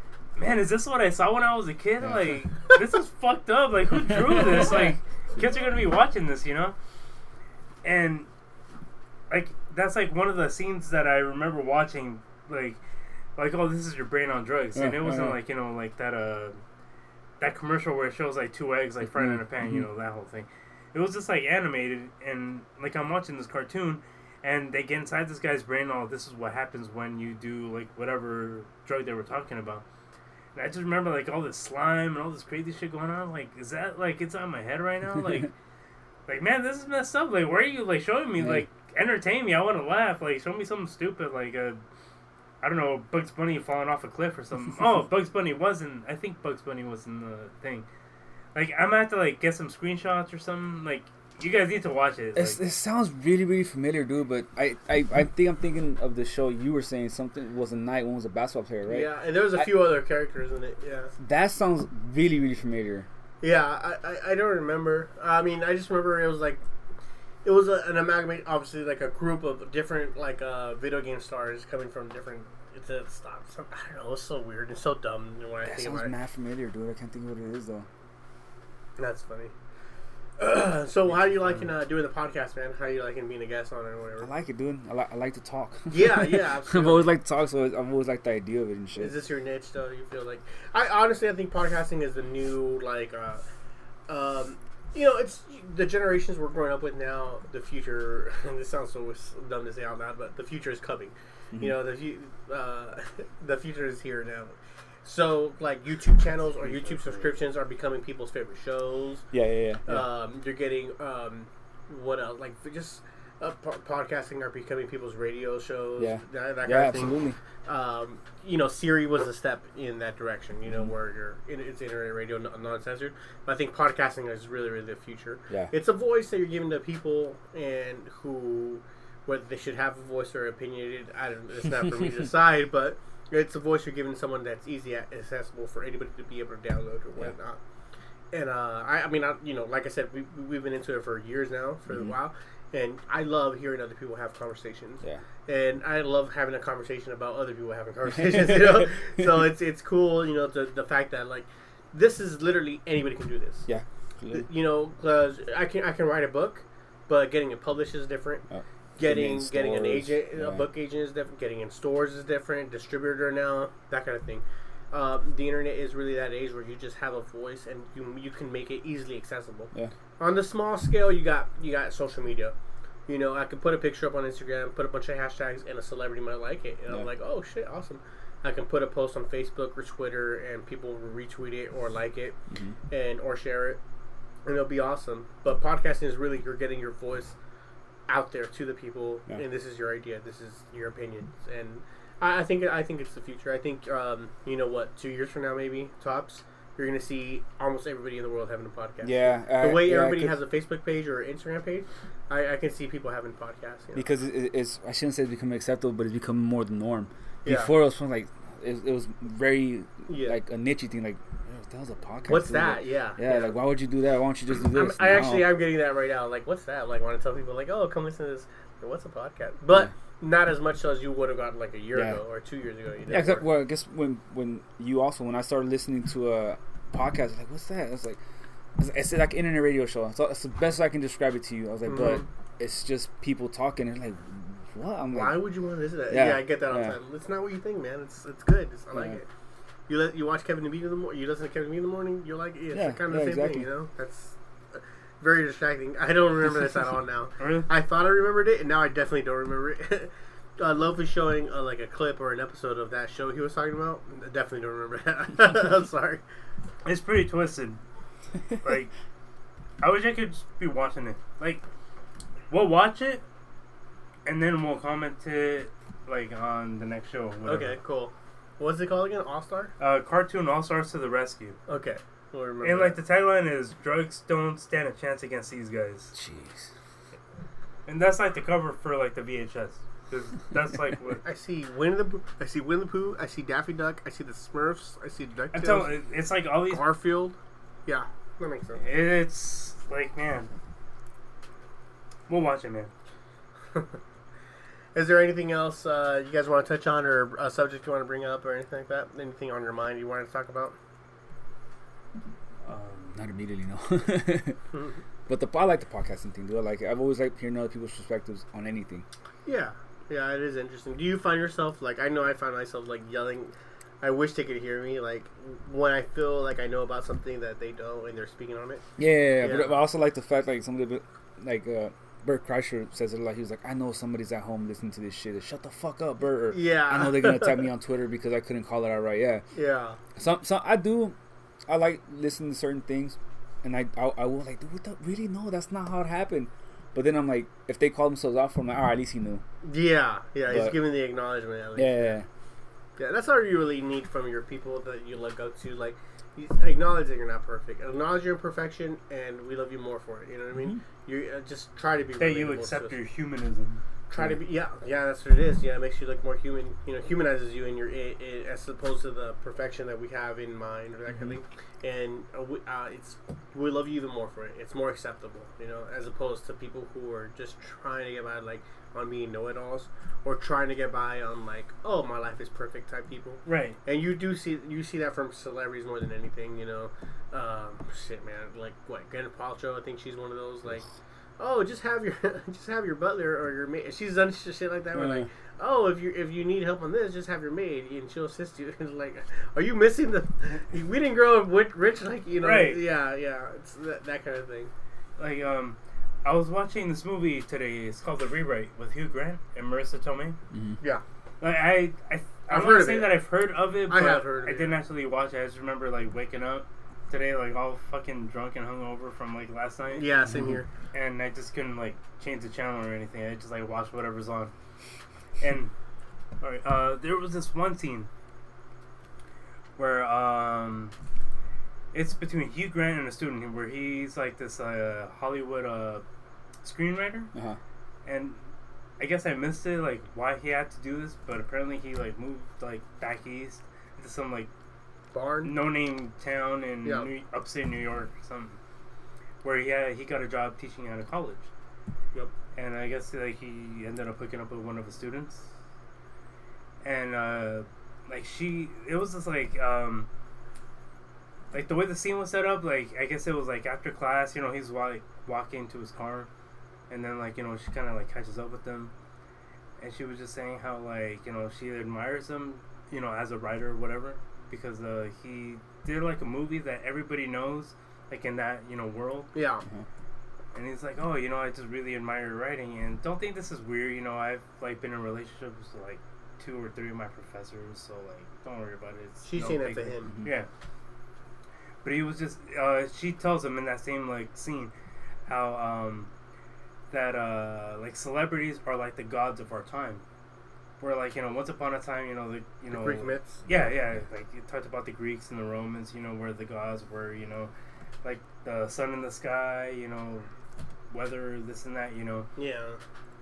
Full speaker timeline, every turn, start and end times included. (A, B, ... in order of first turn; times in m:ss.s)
0:00.4-0:06.8 A
0:02.0-0:02.3 B
0:07.8-0:08.3 A
0:09.3-0:12.8 A
0:13.4-0:16.6 A
0:14.8-0:15.4 B
0:17.4-0:29.8 A
0:19.1-0:19.9 B
0:30.5-0:35.5 A
0:36.3-0:41.8 A
0:42.6-0:47.9 A
0:48.5-0:52.6 A
0:52.4-0:59.7 B
0:58.9-1:01.1 C
1:01.2-1:03.1 B
1:03.4-1:06.6 C
1:07.4-1:16.1 C
1:15.6-1:17.9 B
1:19.0-1:19.5 C
1:20.4-1:24.3 C
1:21.3-1:21.6 A
1:24.2-1:29.2 B
1:25.9-1:27.1 C
1:29.0-1:33.4 C
1:34.1-1:49.3 C
1:41.5-1:41.8 B
1:46.6-1:47.3 A
1:49.3-1:50.1 B
1:49.8-2:17.6 C
1:56.0-1:57.4 B
2:18.3-2:33.7 C
2:28.1-2:29.2 B
2:33.7-2:34.5 B
2:34.3-2:38.4 C
2:38.5-2:40.7 B
2:39.0-2:52.6 C
2:53.1-3:02.4 C
3:02.9-3:03.8 C
3:04.4-3:07.4 C
3:08.1-3:24.1 C
3:19.0-3:20.4 B
3:24.0-3:35.6 B
3:27.4-3:27.7 C
3:30.1-3:30.4 C
3:32.3-3:33.6 C
3:34.7-3:43.4 C
3:41.9-3:42.2 B
3:43.1-3:48.2 B
3:48.8-3:55.5 B
3:51.9-3:52.2 C
3:55.1-3:59.3 C
3:56.1-3:57.0 B
3:58.9-3:59.2 B
3:59.9-4:16.2 C
4:02.7-4:03.7 B
4:07.4-4:07.7 A
4:16.8-4:17.8 A
4:18.6-4:18.9 A
4:19.8-4:21.6 A
4:22.5-4:23.2 A
4:24.3-4:27.8 A
4:27.4-4:29.7 C
4:29.8-4:31.6 A
4:31.7-4:33.0 C
4:32.6-4:36.1 A
4:36.1-4:36.7 B
4:37.9-4:41.2 A
4:41.2-4:46.0 C
4:45.5-4:46.9 A
4:46.7-4:48.8 C
4:48.8-4:50.5 A
4:52.3-4:52.9 A
4:55.0-5:00.8 C
5:02.6-5:03.2 A
5:03.1-5:04.6 B
5:04.7-5:05.0 C
5:05.3-5:09.0 B
5:09.5-5:18.8 C
5:19.0-5:29.4 B
5:19.4-5:19.8 C
5:26.5-5:27.6 C
5:29.5-5:30.0 C
5:30.2-5:31.2 B
5:31.7-5:39.4 B
5:39.6-5:42.2 C
5:40.5-5:40.8 B
5:41.8-5:42.3 B
5:43.0-5:53.0 C
5:50.5-5:50.8 B
5:52.2-5:53.8 A
5:54.1-6:20.8 C
6:13.4-6:13.8 A
6:21.4-6:34.7 C
6:24.9-6:25.3 B
6:32.4-6:32.8 A
6:35.2-6:40.4 A
6:40.5-6:40.8 B
6:41.4-6:50.1 A
6:42.5-6:43.2 C
6:43.9-6:44.8 C
6:49.9-6:50.7 C
6:50.3-6:50.6 B
6:50.9-6:54.5 A
6:55.4-6:55.7 A
6:56.4-6:58.1 A
6:59.8-7:00.9 A
7:01.9-7:06.0 A
7:06.6-7:07.3 A
7:07.3-7:07.6 B
7:08.0-7:08.4 A
7:09.0-7:14.5 A
7:15.1-7:15.6 C
7:15.4-7:18.6 A
7:16.8-7:17.1 C
7:19.4-7:21.5 A
7:22.6-7:25.5 A
7:26.8-7:30.1 A
7:31.5-7:36.3 A
7:36.9-7:38.9 A
7:39.8-7:49.3 A
7:49.3-7:49.6 C
7:50.5-8:00.5 A
7:59.2-8:00.2 C
8:01.8-8:04.7 A
8:05.3-8:06.1 A
8:06.9-8:10.0 A
8:10.8-8:17.5 A
8:12.7-8:13.5 C
8:18.0-8:20.3 A
8:20.9-8:22.3 A
8:22.4-8:22.8 C